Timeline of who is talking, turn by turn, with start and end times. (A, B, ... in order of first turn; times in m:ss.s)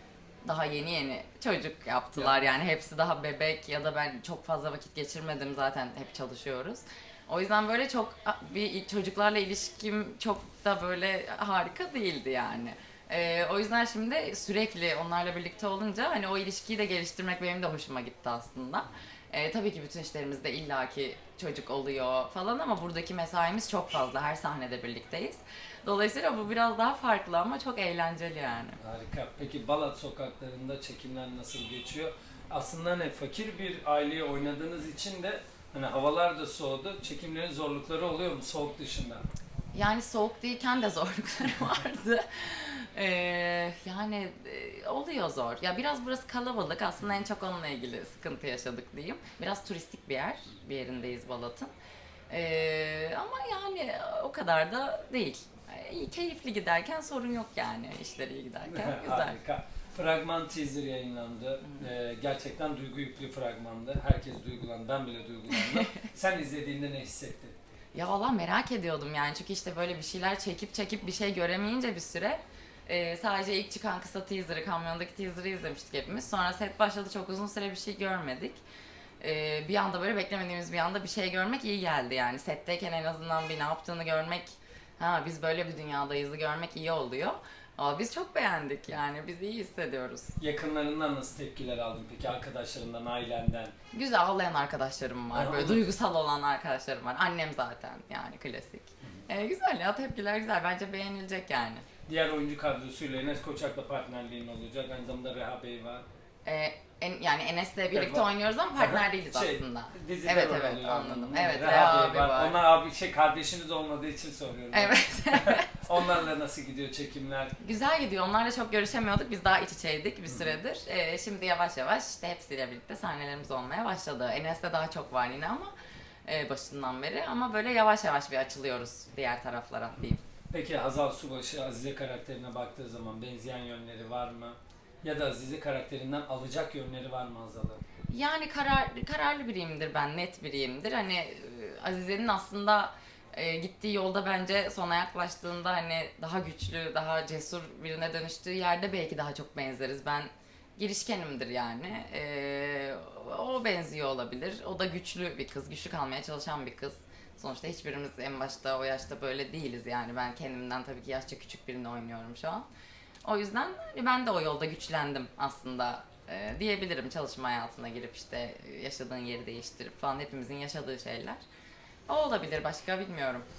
0:00.4-0:28.8 A
0:28.8-0:39.2 B
0:39.7-0:51.7 A
0:52.3-0:59.4 A
0:58.7-1:07.6 B
1:05.5-1:05.9 A
1:07.9-1:18.6 A
1:19.2-1:30.3 A
1:30.4-1:33.8 B
1:33.9-1:41.8 A
1:35.3-1:35.8 B
1:42.1-1:46.0 B
1:46.4-1:52.6 A
1:47.9-1:48.3 B
1:48.8-1:57.6 B
1:54.7-1:55.8 A
1:57.6-2:05.7 A
2:06.3-2:10.2 A
2:10.5-2:17.8 B
2:18.1-2:42.6 A
2:43.2-2:51.4 A
2:52.1-2:53.4 A